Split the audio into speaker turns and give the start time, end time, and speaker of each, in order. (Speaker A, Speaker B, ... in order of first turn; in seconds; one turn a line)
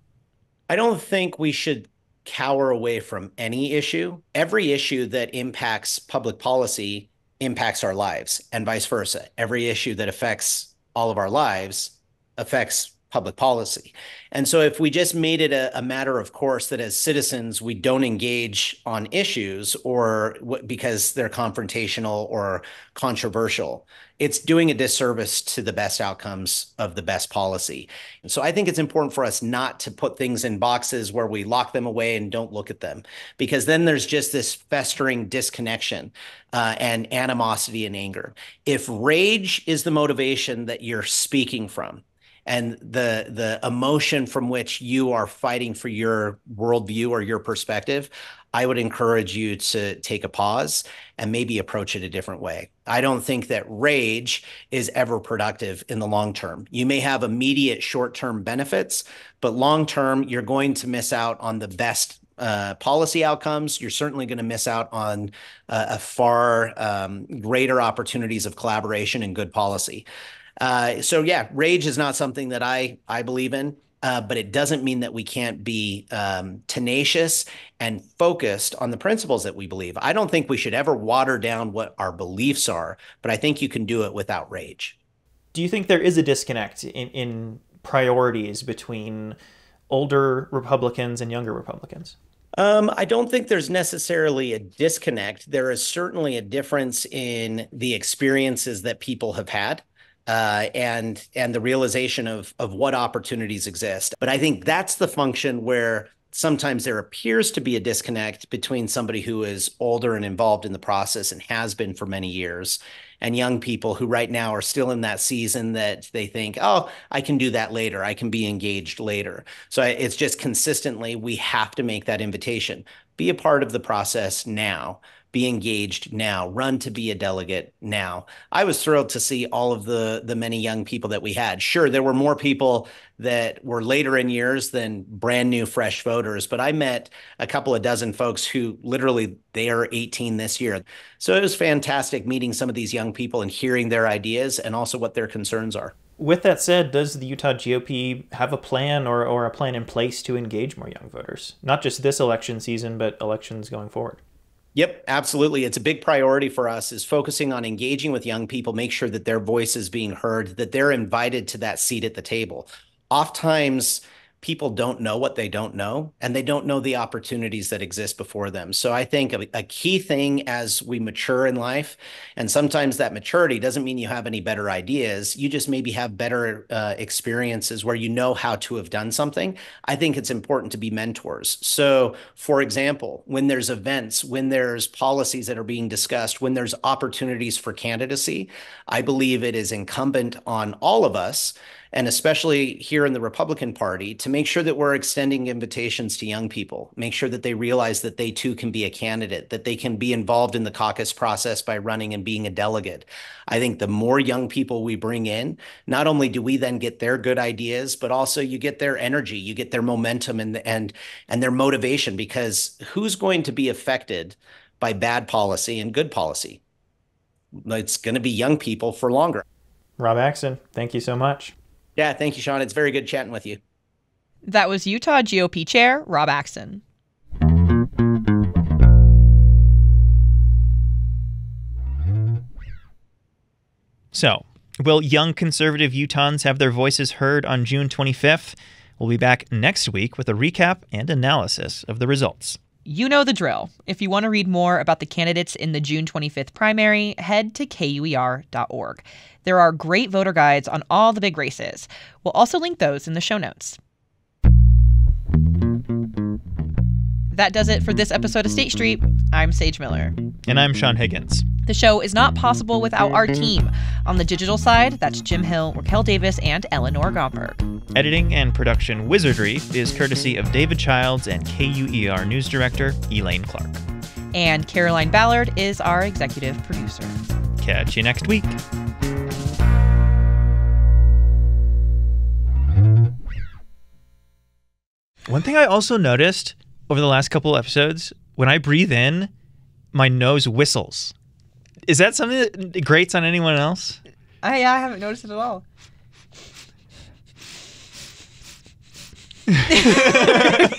Speaker A: 0.7-70.1
Speaker A: 70.6-85.0
Speaker B: 85.5-89.4
Speaker B: 89.9-92.2
Speaker A: 92.6-145.9
Speaker B: 146.2-154.2
Speaker A: 154.8-216.6
Speaker A: 217.7-219.4
Speaker B: 220.0-221.5
Speaker A: 222.0-223.6
Speaker C: 224.5-226.8
Speaker B: 234.1-242.6
Speaker C: 242.9-253.8
Speaker C: 257.3-260.1
Speaker B: 260.5-261.5
Speaker C: 261.7-267.6
Speaker B: 267.9-273.8
Speaker C: 274.3-277.2
Speaker B: 277.6-278.6
Speaker B: 285.3-289.3
Speaker B: 289.9-291.1
Speaker B: 291.9-294.0
Speaker C: 294.4-295.6